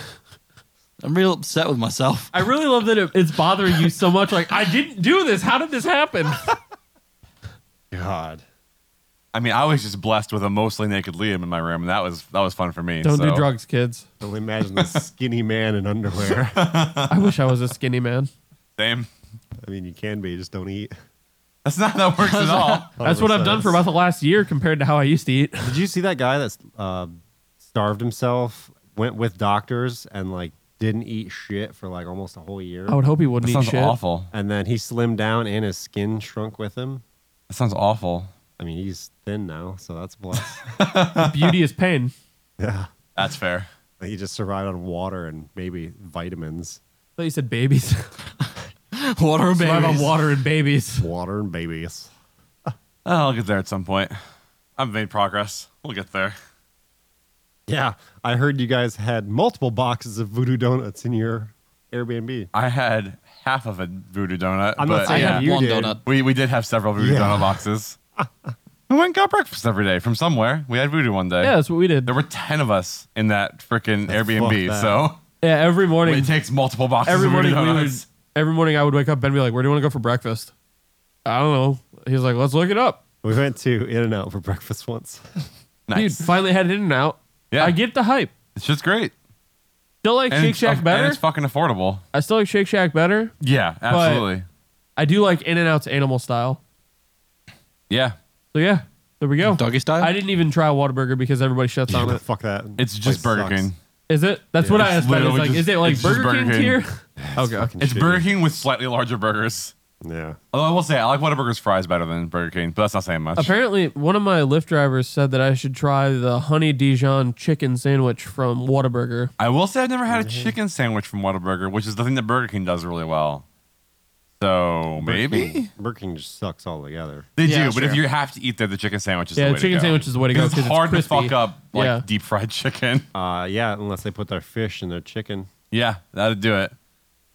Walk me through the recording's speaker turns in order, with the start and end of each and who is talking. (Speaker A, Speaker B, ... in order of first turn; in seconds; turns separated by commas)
Speaker A: 1.0-2.4, Speaker B: 2.3-6.4, Speaker C: 7.9-8.4, Speaker D: 9.3-13.5, Speaker B: 13.0-14.1, Speaker C: 14.2-16.6, Speaker D: 16.5-17.3, Speaker B: 17.1-18.3, Speaker D: 18.8-19.1, Speaker C: 19.6-20.9, Speaker D: 21.6-22.9, Speaker A: 22.2-22.9, Speaker C: 23.0-23.9, Speaker B: 23.0-25.8, Speaker C: 25.6-27.1, Speaker C: 27.6-33.0, Speaker B: 32.9-34.0, Speaker D: 33.4-34.3, Speaker C: 34.3-37.0, Speaker D: 37.5-38.3, Speaker C: 38.6-40.9, Speaker D: 40.8-41.5, Speaker B: 41.2-42.1, Speaker C: 42.6-42.9, Speaker D: 43.1-43.7, Speaker C: 44.0-46.8, Speaker B: 47.2-48.1, Speaker A: 48.9-50.2, Speaker B: 49.5-51.1, Speaker C: 51.0-52.1, Speaker D: 53.0-54.1, Speaker D: 54.8-56.4, Speaker C: 57.7-62.5, Speaker D: 62.5-65.5, Speaker C: 64.8-66.0, Speaker A: 65.0-66.0, Speaker B: 65.1-65.4, Speaker D: 66.0-68.0, Speaker C: 67.0-67.6, Speaker D: 68.9-75.2, Speaker B: 71.4-72.1, Speaker C: 74.1-75.0, Speaker B: 75.4-76.3, Speaker D: 76.0-78.0, Speaker B: 77.0-80.5, Speaker B: 81.3-83.0, Speaker C: 83.2-85.5, Speaker D: 85.9-86.3, Speaker B: 85.9-88.3, Speaker D: 87.5-87.8, Speaker D: 88.5-89.1, Speaker B: 90.0-91.2, Speaker D: 90.3-92.0, Speaker B: 92.1-93.3, Speaker D: 93.4-94.5, Speaker B: 93.9-94.3, Speaker B: 95.0-96.6, Speaker D: 97.9-98.2, Speaker B: 98.5-102.2, Speaker A: 99.4-100.1, Speaker C: 101.9-103.7, Speaker D: 102.8-103.8, Speaker B: 104.1-107.7, Speaker C: 104.6-104.9, Speaker D: 104.8-106.8, Speaker C: 107.2-108.3, Speaker D: 107.8-109.7, Speaker C: 110.0-110.4, Speaker D: 110.5-113.5, Speaker B: 113.4-119.3, Speaker D: 119.4-123.5, Speaker C: 120.1-120.5, Speaker D: 124.4-125.7, Speaker C: 125.0-127.3, Speaker D: 127.4-133.1, Speaker A: 127.4-128.0, Speaker B: 129.4-132.0, Speaker C: 133.1-135.5, Speaker D: 135.7-136.8